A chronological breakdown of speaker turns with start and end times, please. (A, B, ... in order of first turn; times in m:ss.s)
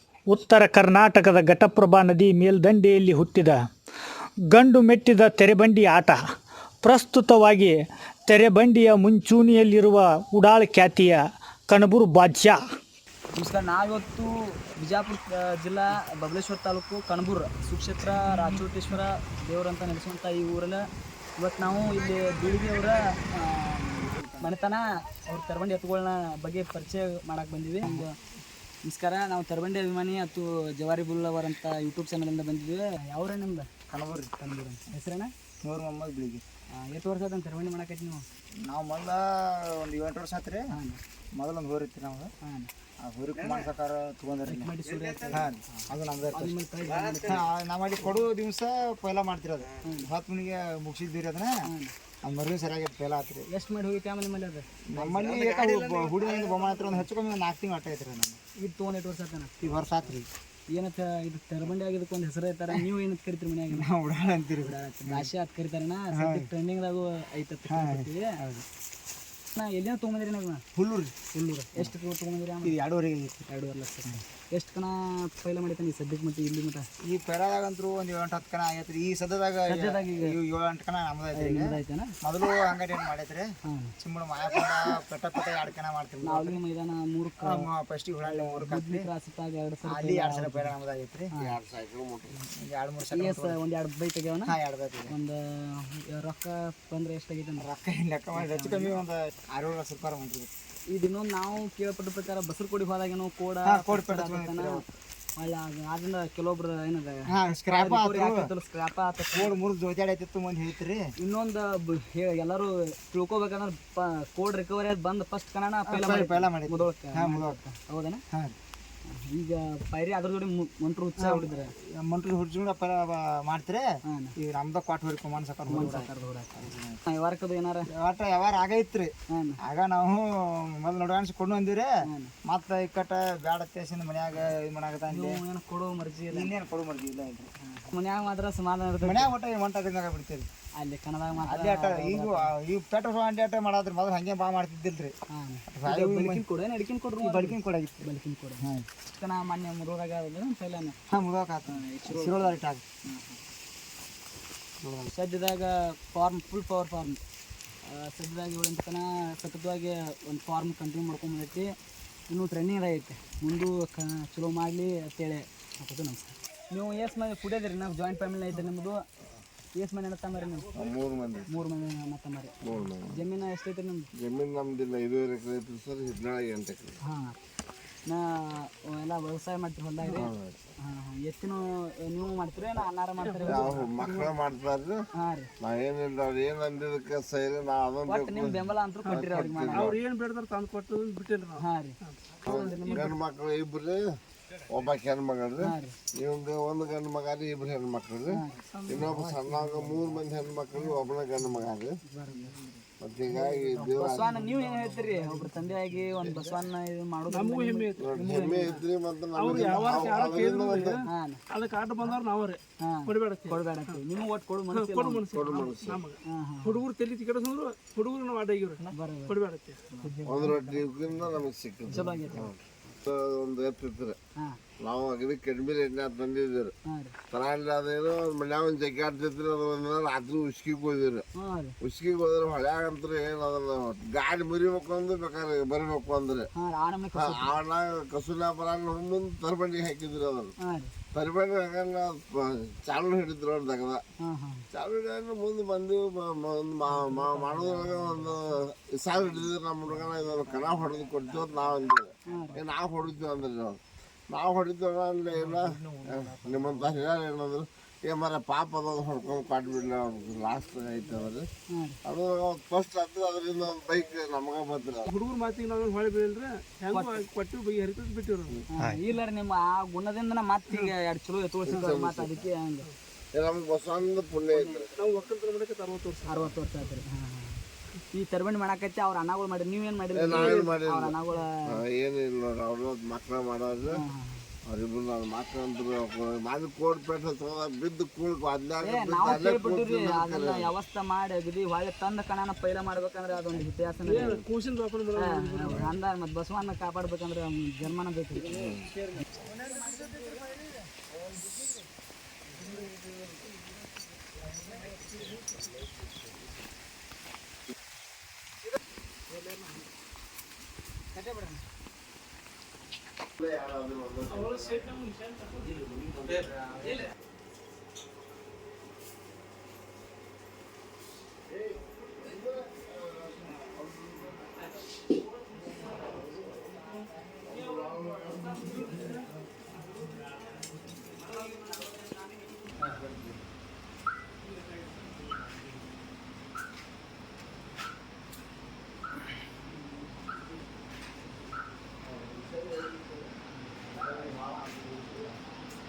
0:00.3-0:03.6 A
0:04.5-0:06.2 A
0:06.8-0:07.8 A
0:08.3-0:12.6 A
0:13.3-0:20.8 B
0:21.4-0:28.2 B
0:24.0-0:24.5 C
0:28.8-0:33.7 B
0:33.9-0:34.3 C
0:34.4-0:35.3 B
0:35.6-0:36.4 C
0:36.7-0:38.2 B
0:38.6-0:40.6 C
0:40.7-0:41.0 B
0:41.4-0:42.3 C
0:42.4-0:42.7 B
0:43.0-0:44.7 C
0:44.4-0:47.4 B
0:45.3-0:46.5 C
0:47.2-0:51.6 C
0:49.8-0:50.1 B
0:51.7-0:51.9 B
0:52.2-0:53.4 C
0:53.5-0:55.2 B
0:54.9-0:58.4 C
0:56.8-0:57.0 B
0:58.6-0:59.5 B
0:59.6-1:00.3 C
1:00.7-1:03.8 B
1:03.7-1:05.3 C
1:04.6-1:08.3 B
1:06.1-1:06.5 C
1:07.7-1:08.6 C
1:09.5-1:10.6 B
1:10.8-1:11.2 C
1:11.3-1:12.8 B
1:12.6-1:13.4 C
1:13.5-1:16.9 B
1:17.0-1:26.6 C
1:19.7-1:20.3 B
1:21.3-1:22.1 B
1:23.7-1:23.9 B
1:26.2-1:27.7 B
1:27.4-1:29.1 C
1:28.3-1:30.7 B
1:29.9-1:31.3 C
1:31.4-1:32.3 D
1:32.6-1:33.6 C
1:33.1-1:34.6 B
1:34.4-1:35.2 C
1:35.1-1:37.7 B
1:37.6-1:40.5 C
1:38.3-1:39.0 B
1:40.9-1:44.8 B
1:43.6-1:44.8 C
1:45.4-1:49.5 B
1:47.3-1:48.5 C
1:49.3-1:51.1 C
1:51.2-1:58.2 B
1:55.9-1:57.6 C
1:59.1-2:01.7 B
2:01.2-2:07.0 C
2:04.1-2:04.3 B
2:05.7-2:07.9 B
2:07.9-2:09.1 C
2:09.3-2:09.6 B
2:09.6-2:11.9 C
2:12.1-2:12.3 B
2:12.5-2:15.4 C
2:15.1-2:16.5 B
2:16.3-2:17.5 C
2:17.6-2:19.3 B
2:19.0-2:20.5 C
2:20.8-2:22.5 B
2:21.4-2:25.1 C
2:25.3-2:31.0 B
2:25.7-2:26.4 C
2:27.2-2:28.1 C
2:31.1-2:32.8 C
2:31.7-2:33.4 B
2:35.1-2:37.2 B
2:37.8-2:41.7 B
2:42.3-2:49.0 B
2:49.8-2:50.7 B
2:50.8-2:51.5 C
2:51.5-2:52.6 B
2:52.6-2:53.2 D
2:53.1-2:54.1 B
2:54.2-2:57.0 D
2:57.0-2:57.4 B
2:58.1-3:00.3 B
3:00.1-3:00.6 D
3:00.8-3:04.2 B
3:03.2-3:04.3 E
3:03.5-3:05.0 D
3:05.2-3:05.5 B
3:05.6-3:08.6 D
3:08.1-3:09.9 B
3:09.1-3:13.2 E
3:09.1-3:09.9 C
3:09.3-3:10.0 D
3:11.6-3:13.2 B
3:12.5-3:14.0 D
3:14.7-3:18.4 D
3:15.6-3:15.9 B
3:18.3-3:18.6 B
3:18.7-3:19.3 E
3:18.8-3:20.2 C
3:19.2-3:21.9 D
3:22.1-3:22.5 B
3:22.3-3:22.8 C
3:23.0-3:24.3 D
3:23.9-3:28.8 B
3:24.4-3:25.7 C
3:27.4-3:31.0 E
3:28.1-3:28.7 C
3:28.2-3:31.0 D
3:29.5-3:30.1 C
3:29.5-3:29.9 B
3:31.1-3:31.4 B
3:31.5-3:33.6 E
3:32.8-3:35.2 B
3:34.8-3:39.8 E
3:36.3-3:36.8 B
3:38.9-3:39.4 B
3:39.9-3:40.8 B
3:40.3-3:41.2 E
3:40.5-3:44.2 D
3:41.9-3:42.5 B
3:44.8-3:46.7 D
3:46.9-3:47.2 B
3:47.3-3:51.2 D
3:51.4-3:51.8 B
3:51.8-3:56.5 D
3:56.6-3:57.6 B
3:57.2-4:00.5 D
4:00.6-4:00.9 B
4:01.1-4:04.0 D
4:04.2-4:04.6 B
4:04.7-4:13.8 D
4:07.0-4:08.4 C
4:12.3-4:12.6 B
4:14.3-4:21.4 D
4:15.5-4:16.9 C
4:21.7-4:22.0 B
4:22.1-4:25.1 D
4:24.9-4:28.6 E
4:26.9-4:27.2 B
4:28.7-4:32.9 B
4:31.7-4:32.4 D
4:33.3-4:34.9 D
4:34.5-4:35.1 B
4:35.0-4:36.5 E
4:36.3-4:41.6 B
4:40.1-4:43.9 D
4:43.9-4:44.5 B
4:44.6-4:50.7 D
4:48.8-4:54.4 B
4:54.1-4:55.9 E
4:55.2-4:58.6 B
4:58.5-4:58.8 D
4:59.4-5:01.6 C
5:09.3-5:09.9 E
5:11.1-5:11.6 B
5:13.4-5:14.5 D
5:14.2-5:16.4 E
5:21.5-5:24.3 D
5:22.1-5:23.7 E
5:24.3-5:24.6 E
5:25.9-5:26.5 E
5:27.4-5:29.3 E
5:27.5-5:28.9 D
5:31.0-5:31.9 E
5:32.8-5:33.1 E
5:42.0-5:43.3 E
5:43.9-5:44.8 D
5:44.0-5:44.3 E